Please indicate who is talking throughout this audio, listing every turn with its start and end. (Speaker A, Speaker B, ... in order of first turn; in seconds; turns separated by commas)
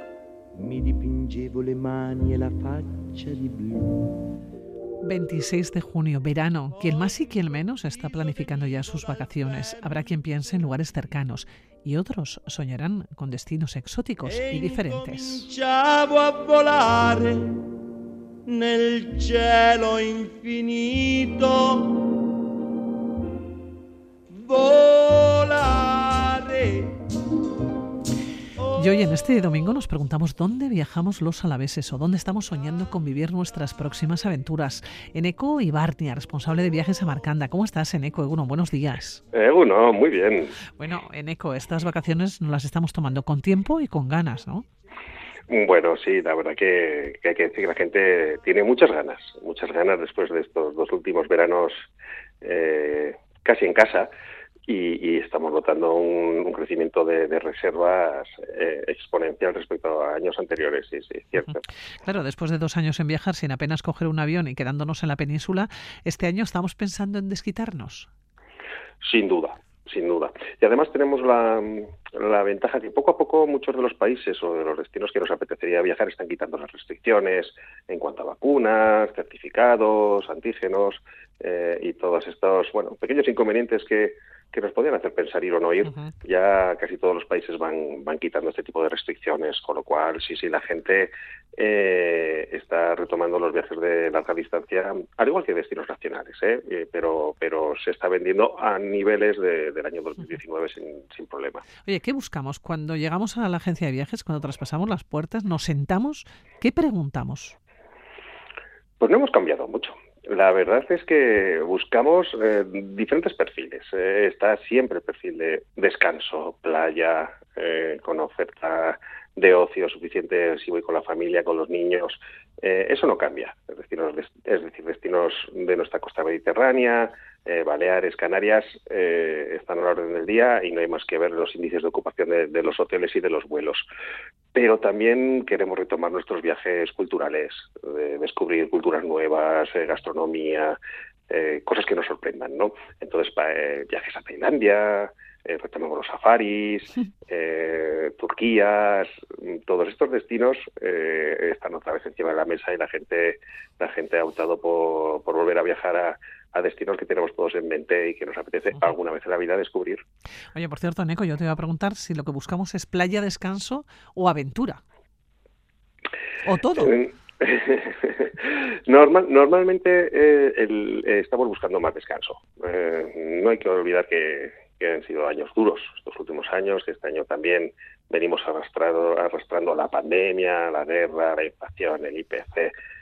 Speaker A: 0.5-4.2, Speaker B: 5.0-15.5, Speaker A: 14.3-17.7, Speaker A: 18.5-22.0, Speaker A: 24.3-27.0, Speaker B: 28.7-39.2, Speaker C: 39.3-40.6, Speaker B: 40.8-44.6, Speaker C: 45.5-51.8, Speaker C: 52.4-54.1, Speaker C: 54.7-61.6, Speaker B: 62.0-68.1, Speaker C: 69.0-101.7, Speaker B: 85.9-86.1, Speaker B: 101.8-107.5, Speaker C: 109.0-133.9, Speaker C: 134.5-140.8, Speaker C: 141.3-160.0, Speaker B: 160.5-164.8, Speaker B: 166.4-167.0, Speaker C: 166.8-182.7